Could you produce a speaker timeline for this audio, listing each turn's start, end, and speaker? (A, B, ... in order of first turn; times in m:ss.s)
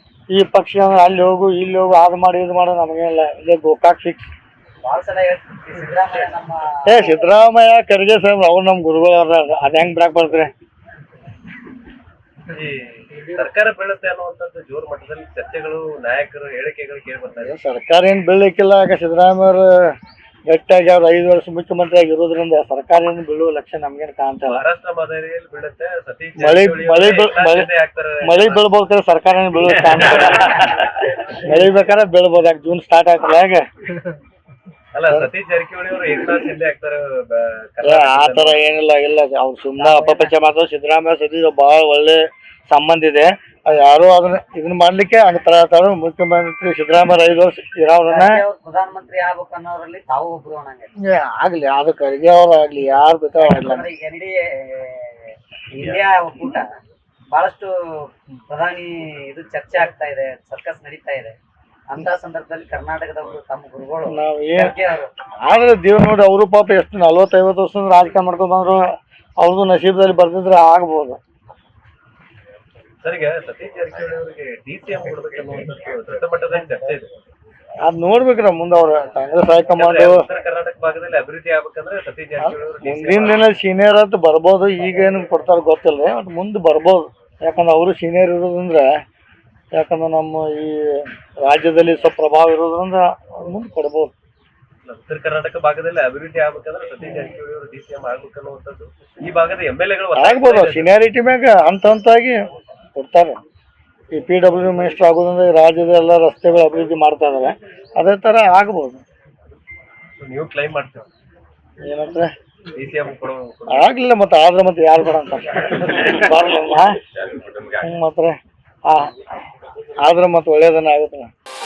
0:00.3-0:04.3 A
0:04.8-0:07.2 B
0:06.9-0:10.5 A
0:12.5-0:17.5 C
0:17.4-0:19.9 A
0:20.5-0:24.6 A
0:24.4-0:28.6 C
0:26.4-0:27.7 A
0:28.2-0:33.6 A
0:29.7-0:31.4 C
0:34.9-0:38.6 C
0:37.8-0:48.4 A
0:39.8-0:40.3 B
0:48.0-0:50.9 B
0:51.0-0:53.8 A
0:53.4-0:56.7 B
0:57.3-1:01.4 B
1:01.9-1:05.1 B
1:04.1-1:04.7 A
1:05.4-1:08.8 A
1:09.4-1:11.2 A
1:13.0-1:17.1 C
1:17.8-1:20.2 A
1:19.8-1:23.5 C
1:22.4-1:28.9 A
1:29.7-1:34.1 A
1:34.8-1:40.9 C
1:37.0-1:37.3 A
1:40.1-1:42.4 A
1:42.9-1:43.4 A
1:44.1-1:49.0 A
1:50.2-1:51.1 C
1:51.8-1:52.3 A
1:52.7-1:54.0 C
1:53.7-1:57.0 A
1:57.8-1:59.1 A
2:00.0-2:01.3 A